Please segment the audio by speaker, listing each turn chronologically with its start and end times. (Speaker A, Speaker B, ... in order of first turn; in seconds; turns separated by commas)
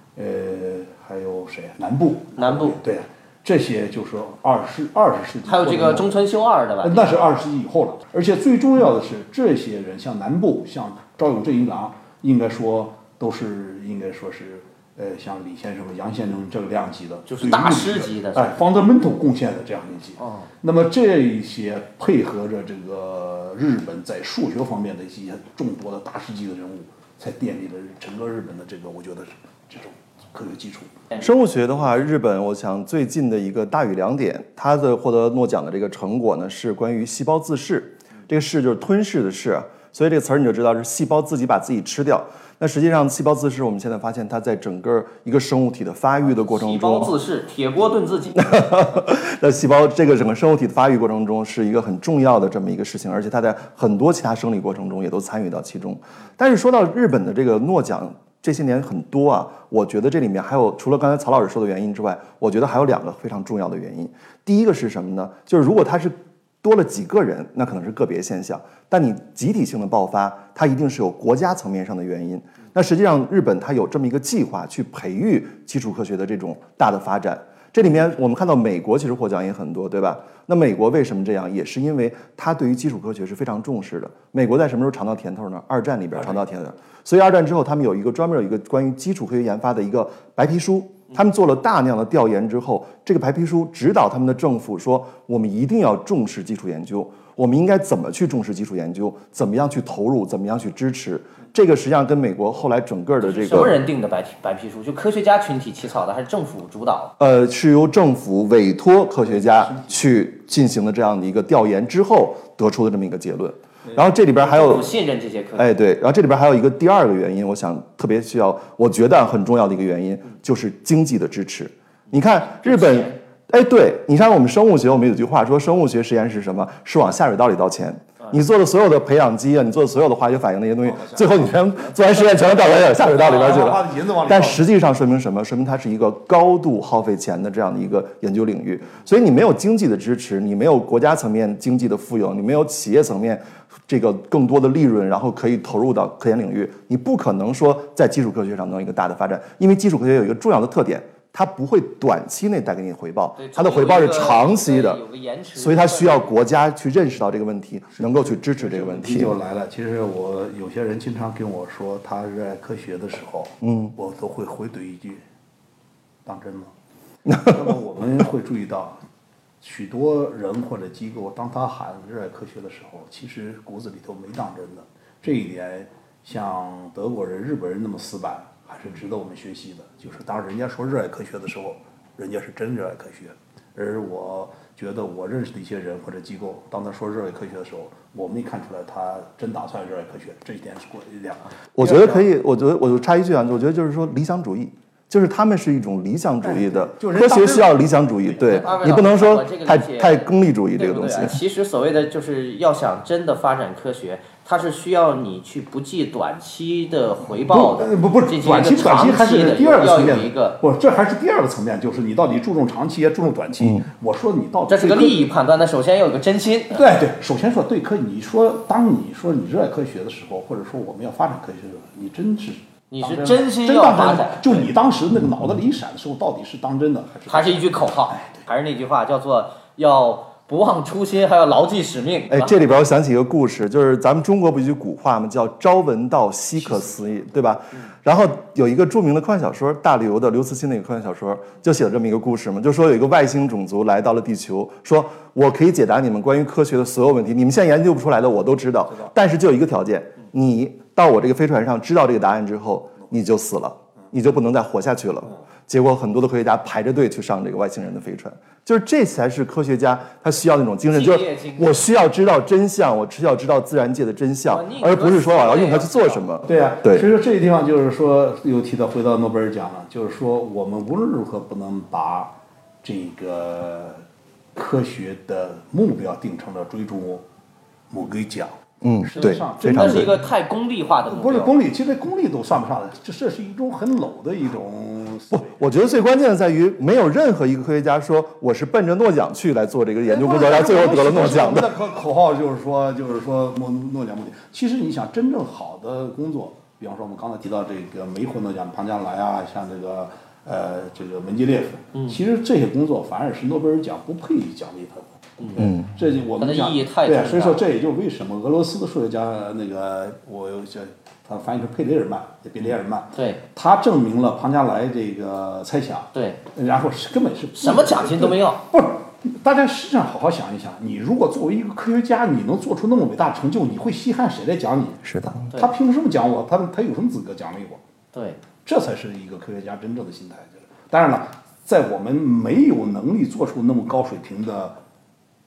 Speaker A: 0.1-6.2, Speaker B: 2.4-2.8, Speaker B: 5.5-7.2, Speaker A: 6.8-30.9, Speaker B: 17.3-18.6, Speaker B: 20.2-20.5, Speaker C: 31.1-47.1, Speaker B: 46.2-48.4, Speaker C: 48.4-103.8, Speaker B: 103.2-107.1, Speaker C: 107.2-115.0, Speaker A: 109.2-110.0, Speaker A: 113.8-114.1, Speaker B: 114.4-115.7, Speaker C: 115.6-155.0, Speaker B: 122.1-123.2, Speaker A: 130.8-131.6, Speaker A: 133.0-134.7, Speaker B: 153.4-156.3, Speaker C: 155.6-159.4, Speaker A: 158.0-165.2, Speaker C: 163.6-163.9, Speaker A: 166.3-166.7, Speaker A: 167.5-169.0, Speaker A: 169.6-192.3, Speaker C: 191.8-201.4, Speaker A: 196.4-197.9, Speaker B: 198.4-210.6, Speaker A: 207.5-215.3, Speaker B: 214.7-216.9, Speaker A: 216.7-228.4, Speaker B: 222.9-224.7, Speaker B: 227.3-232.7, Speaker C: 232.3-267.1, Speaker A: 236.6-237.3, Speaker B: 260.9-261.9, Speaker B: 264.5-266.2, Speaker A: 266.4-274.0, Speaker A: 274.6-277.2, Speaker A: 277.9-280.3, Speaker C: 278.8-280.1, Speaker B: 279.2-281.5, Speaker A: 281.1-285.6, Speaker C: 285.5-291.7, Speaker A: 290.0-327.8, Speaker C: 305.6-305.9, Speaker B: 306.4-307.6, Speaker B: 313.1-313.4, Speaker B: 316.1-316.4, Speaker B: 317.6-318.6, Speaker C: 325.1-325.4, Speaker B: 328.1-328.4, Speaker A: 328.6-334.8